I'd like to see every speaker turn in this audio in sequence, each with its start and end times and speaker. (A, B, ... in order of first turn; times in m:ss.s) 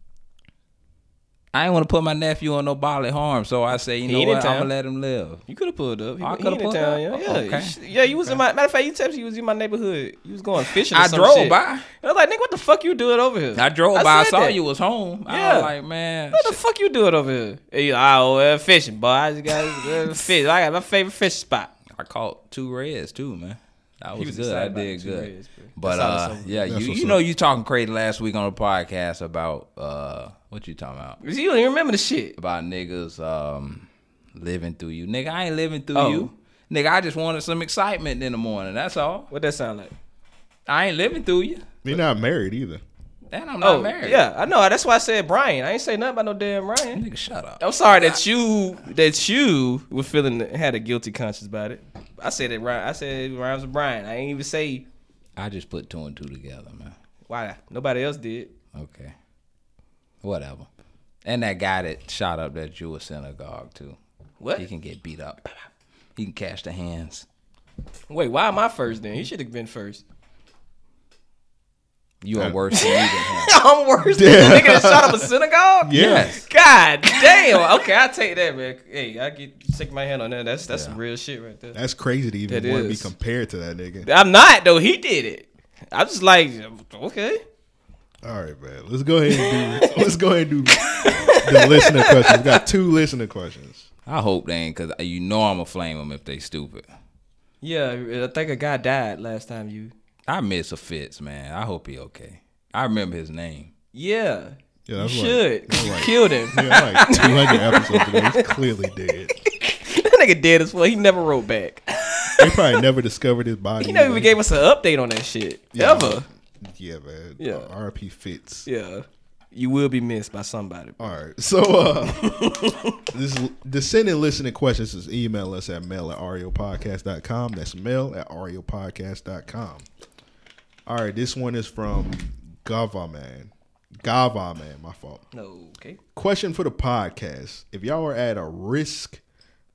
0:01.5-0:05.4 A
0:04.0-0:04.7 B
0:05.5-0:14.6 B
0:06.2-0:07.7 A
0:10.9-0:11.9 A
0:13.6-0:16.6 A
0:15.3-0:15.7 B
0:16.3-0:21.7 B
0:21.9-0:31.2 A
0:24.1-0:26.6 B
0:26.7-0:27.2 C
0:31.2-0:32.4 B
0:32.4-0:39.3 A
0:35.9-0:36.3 B
0:39.3-0:39.9 B
0:40.7-0:42.0 A
0:41.8-0:42.8 C
0:43.3-0:44.2 A
0:43.6-0:47.0 B
0:46.9-0:48.2 A
0:47.6-0:54.8 B
0:55.4-0:56.9 A
0:57.3-0:58.5 B
0:58.7-0:59.1 A
1:00.2-1:00.7 A
1:01.2-1:04.0 A
1:04.4-1:04.6 B
1:04.6-1:05.6 A
1:06.2-1:07.3 A
1:08.1-1:10.0 B
1:12.2-1:13.5 A
1:12.4-1:12.6 C
1:12.7-1:21.8 B
1:14.1-1:15.3 C
1:15.8-1:16.4 C
1:15.9-1:16.4 A
1:20.7-1:21.0 A
1:21.7-1:24.1 C
1:22.5-1:23.1 B
1:24.0-1:27.4 B
1:28.2-1:33.9 C
1:29.4-1:30.0 B
1:31.0-1:32.6 B
1:34.1-1:36.8 A
1:37.6-1:39.9 B
1:40.3-1:43.7 A
1:43.9-1:48.4 B
1:44.9-1:49.4 C
1:49.5-1:52.5 B
1:52.4-1:54.4 C
1:53.8-1:56.3 B
1:55.7-1:58.7 C
1:57.4-1:57.7 B
1:58.6-2:01.1 B
2:01.0-2:09.8 C
2:02.2-2:03.0 B
2:10.8-2:15.2 C
2:15.3-2:16.0 B
2:16.1-2:19.2 C